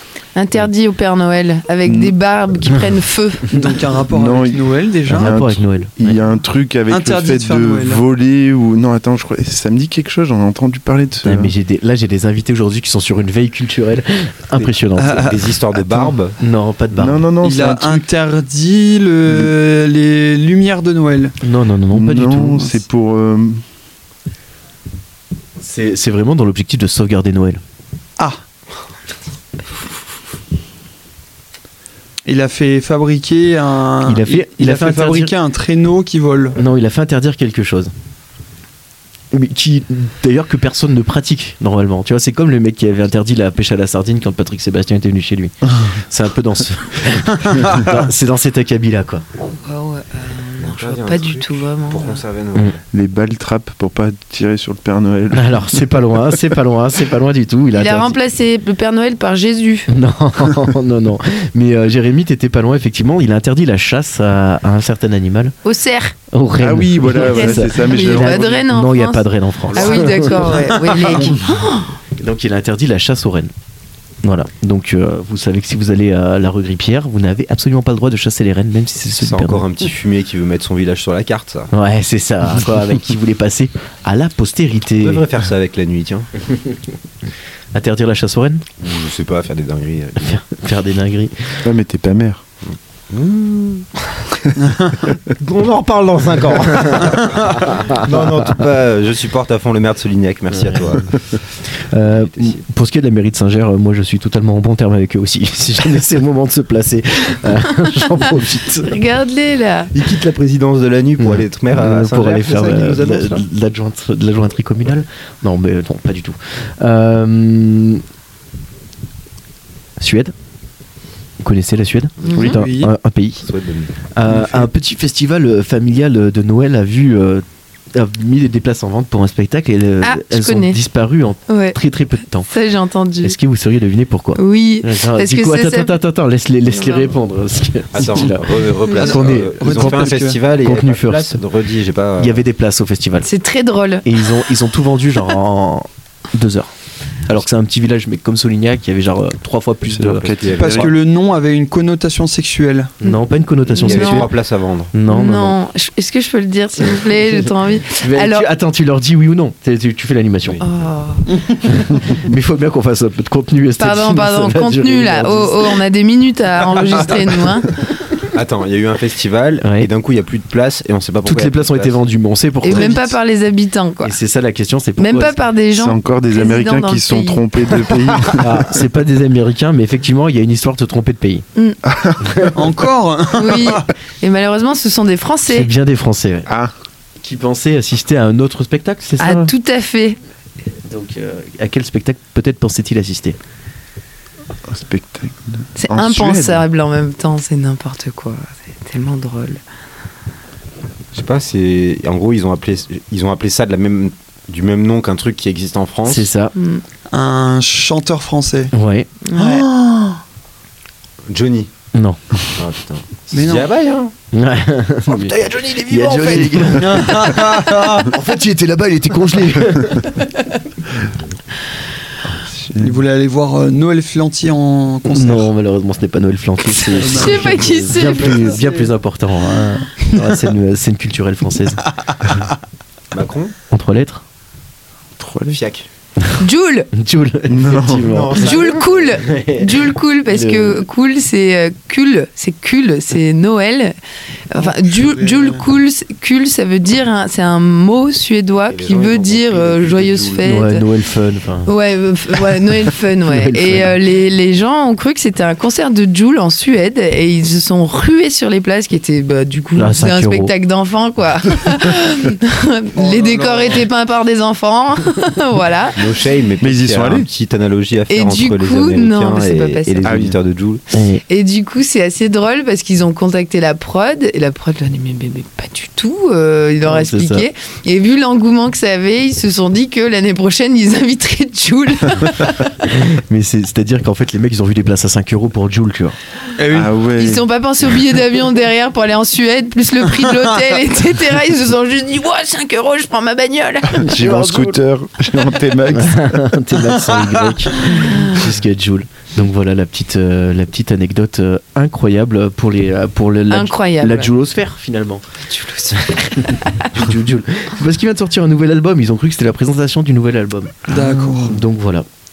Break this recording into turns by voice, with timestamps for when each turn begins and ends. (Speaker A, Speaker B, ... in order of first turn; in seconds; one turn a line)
Speaker A: 0.3-3.5
Speaker B: 1.9-2.1
Speaker C: 3.5-5.4
Speaker B: 4.1-11.5
Speaker D: 5.1-6.2
Speaker C: 6.9-8.0
Speaker D: 11.2-15.3
Speaker C: 14.9-16.1
Speaker E: 15.2-16.4
Speaker D: 16.4-17.2
Speaker B: 16.9-18.1
Speaker C: 17.4-21.4
Speaker D: 21.4-22.7
Speaker B: 21.9-23.6
Speaker D: 25.6-27.6
Speaker C: 32.2-36.6
Speaker D: 34.0-35.3
Speaker D: 36.6-37.9
Speaker D: 39.3-49.2
Speaker C: 47.4-47.9
Speaker A: 49.6-52.2
Speaker E: 50.6-52.8
Speaker B: 52.9-56.4
Speaker D: 55.3-58.2
Speaker A: 57.7-59.9
Speaker D: 59.9-65.5
Speaker A: 65.6-66.2
Speaker D: 66.3-71.2
Speaker B: 66.6-68.4
Speaker A: 67.2-72.0
Speaker C: 70.1-71.4
Speaker D: 72.2-73.5
Speaker D: 74.2-79.7
Speaker E: 79.2-81.7
Speaker D: 81.7-85.2
Speaker E: 85.0-86.3
Speaker D: 87.7-88.6
Speaker E: 88.8-90.4
Speaker D: 90.2-91.7
Speaker B: 91.6-92.4
Speaker E: 92.7-94.5
Speaker C: 94.6-95.0
Speaker E: 95.1-101.2
Speaker D: 100.5-101.0
Speaker D: 101.8-108.9
Speaker E: 102.0-102.6
Speaker A: 108.8-109.9
Speaker E: 109.9-113.5
Speaker D: 111.2-118.0
Speaker D: 120.0-120.3
Speaker D: 121.4-123.5
Speaker A: 122.2-122.5
Speaker C: 122.4-123.0
Speaker E: 123.4-123.9
Speaker D: 124.1-132.5
Speaker C: 124.3-124.7
Speaker A: 130.0-130.8
Speaker A: 131.5-131.8
Speaker A: 132.4-133.4
Speaker D: 133.2-141.4
Speaker A: 134.4-135.9
Speaker A: 136.7-137.1
Speaker E: 137.9-142.4
Speaker A: 138.9-139.1
Speaker C: 139.0-140.4
Speaker D: 142.2-143.3
Speaker A: 143.2-144.3
Speaker D: 144.1-146.7
Speaker D: 147.3-150.3
Speaker B: 149.9-150.9
Speaker E: 150.3-150.9
Speaker C: 150.5-152.9
Speaker A: 153.0-154.3
Speaker D: 153.0-154.3
Speaker E: 153.7-154.9
Speaker D: 154.9-155.6
Speaker A: 155.1-158.4
Speaker D: 158.0-160.6
Speaker A: 160.6-161.3
Speaker D: 161.7-165.8
Speaker A: 163.8-167.7
Speaker E: 168.3-172.0
Speaker D: 169.6-169.9
Speaker D: 171.2-173.1
Speaker A: 172.6-174.2
Speaker D: 174.0-175.4
Speaker A: 175.0-178.3
Speaker B: 175.8-178.8
Speaker D: 178.3-181.4
Speaker B: 181.9-182.5
Speaker C: 182.5-183.9
Speaker A: 183.3-185.7
Speaker D: 185.5-186.5
Speaker B: 186.5-186.7
Speaker D: 187.2-189.5
Speaker A: 189.2-190.2
Speaker D: 190.9-193.4
Speaker B: 194.7-196.6
Speaker A: 195.8-199.6
Speaker E: 201.1-206.3
Speaker D: 206.1-206.5
Speaker A: 206.6-206.8
Speaker C: 207.1-208.7
Speaker D: 208.7-209.2
Speaker A: 209.2-209.7
Speaker C: 209.4-210.1
Speaker E: 211.3-211.7
Speaker D: 211.9-212.3
Speaker E: 212.6-214.1
Speaker C: 213.3-213.7
Speaker D: 214.3-220.1
Speaker C: 215.1-218.1
Speaker A: 217.1-217.9
Speaker B: 222.3-223.0
Speaker C: 222.8-225.5
Speaker D: 225.1-231.8
Speaker C: 226.8-228.0
Speaker A: 227.0-228.6
Speaker C: 232.1-232.4
Speaker E: 233.1-233.5
Speaker D: 233.7-234.2
Speaker B: 235.2-235.6
Speaker E: 235.5-235.9
Speaker A: 236.4-236.9
Speaker D: 236.9-240.8
Speaker B: 237.5-238.1
Speaker E: 237.9-239.2
Speaker A: 238.3-243.9
Speaker A: 244.5-250.8
Speaker C: 244.6-245.6
Speaker E: 248.7-250.5
Speaker D: 250.4-251.7
Speaker A: 251.7-266.0
Speaker D: 253.3-253.9
Speaker D: 259.8-260.5
Speaker C: 262.9-263.9
Speaker E: 266.0-270.8
Speaker B: 266.6-267.3
Speaker A: 268.1-270.2
Speaker B: 270.0-270.4
Speaker D: 270.9-271.2
Speaker A: 271.3-282.7
Speaker D: 276.9-277.5
Speaker D: 282.8-286.1
Speaker C: 286.6-286.9
Speaker B: 286.7-287.4
Speaker A: 287.1-294.1
Speaker B: 293.9-296.6
Speaker D: 294.0-294.8
Speaker D: 295.9-305.4
Speaker A: 297.8-298.4
Speaker A: 303.5-304.3
Speaker A: 305.5-306.9
Speaker D: 306.0-312.1
Speaker C: 310.9-311.6